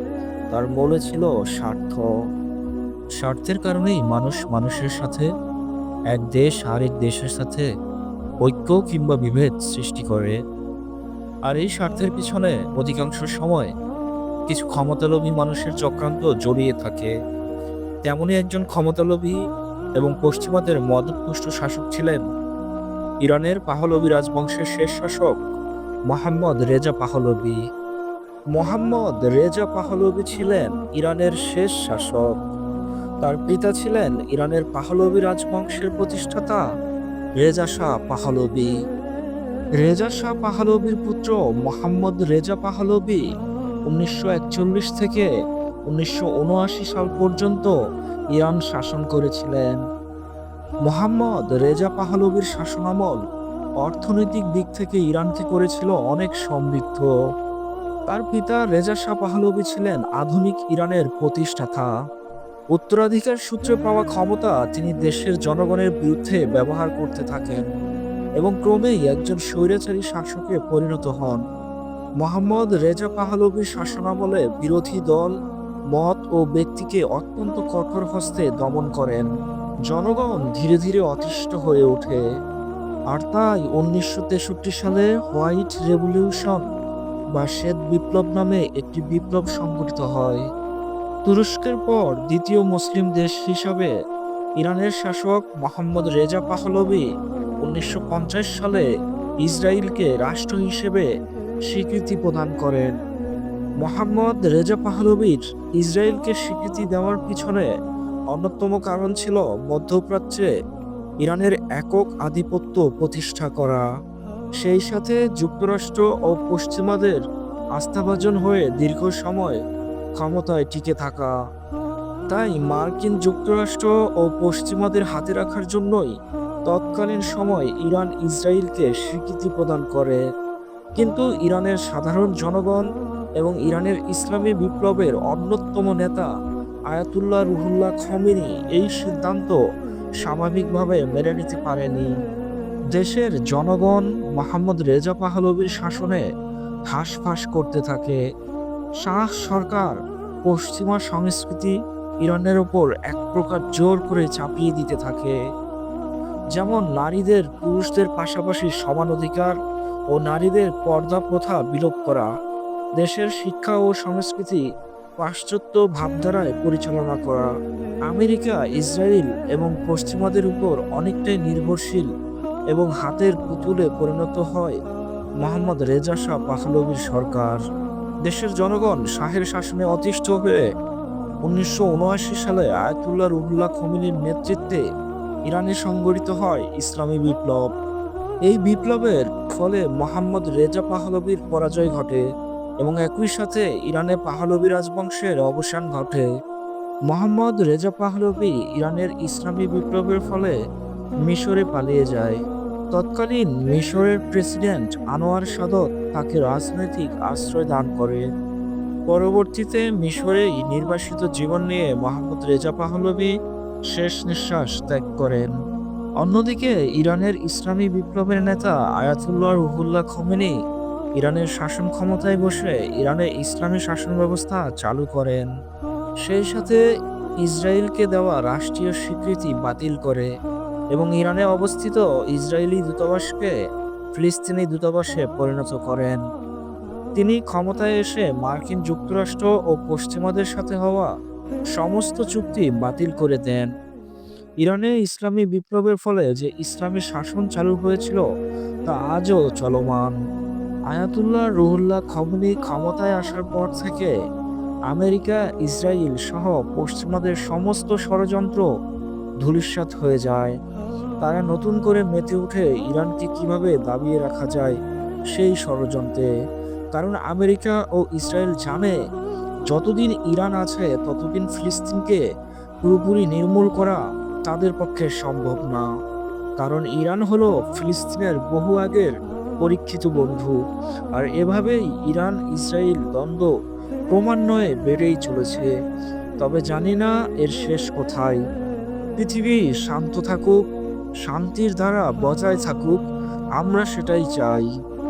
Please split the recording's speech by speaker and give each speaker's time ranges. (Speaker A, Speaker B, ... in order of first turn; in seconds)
Speaker A: 0.5-2.0, 3.2-5.2, 6.1-7.7, 8.4-10.4, 11.5-13.7, 14.5-17.1, 18.0-19.4, 20.0-22.2, 23.2-25.4, 26.1-27.6, 28.5-32.3, 33.2-36.6, 37.4-38.7, 39.8-43.2, 43.9-45.3, 45.9-47.7, 48.3-49.8, 50.9-53.2, 53.8-57.1, 58.1-61.9, 62.7-67.7, 68.4-71.4, 72.2-75.3, 75.9-79.3, 79.9-82.2, 83.1-86.6, 87.3-90.4, 91.2-93.9, 94.6-97.0, 97.6-98.8, 99.4-101.1, 101.7-102.9, 103.8-107.7, 108.3-110.5, 111.2-113.8, 114.6-117.2, 117.8-119.6, 120.2-121.3, 122.3-126.0, 126.7-130.2, 131.0-132.8, 133.4-136.3, 136.9-139.6, 140.2-142.1, 142.9-146.2, 146.9-148.2, 149.0-149.9, 150.5-151.7, 152.2-155.3, 156.5-159.6, 160.1-162.3, 163.0-164.6, 165.2-167.5, 168.1-172.1, 172.7-174.8, 175.4-177.6, 178.3-180.6, 181.4-184.8, 185.5-187.7, 188.5-192.2, 192.8-196.2, 197.1-200.5, 201.3-202.4, 202.9-208.2, 209.1-213.3, 213.9-215.5, 216.2-220.5, 221.2-225.5, 226.2-226.8, 227.4-230.3, 230.9-233.5, 234.1-236.2, 237.2-241.1, 241.8-243.7, 244.6-248.2, 248.8-250.1, 250.9-254.1, 254.9-258.6, 259.4-260.5, 261.2-264.8, 265.3-266.3, 266.9-268.9, 269.7-272.2, 272.8-275.8, 276.6-279.1, 279.6-280.6, 281.1-283.5, 284.1-285.7, 286.4-288.4, 289.2-290.6, 291.2-293.0, 293.6-294.7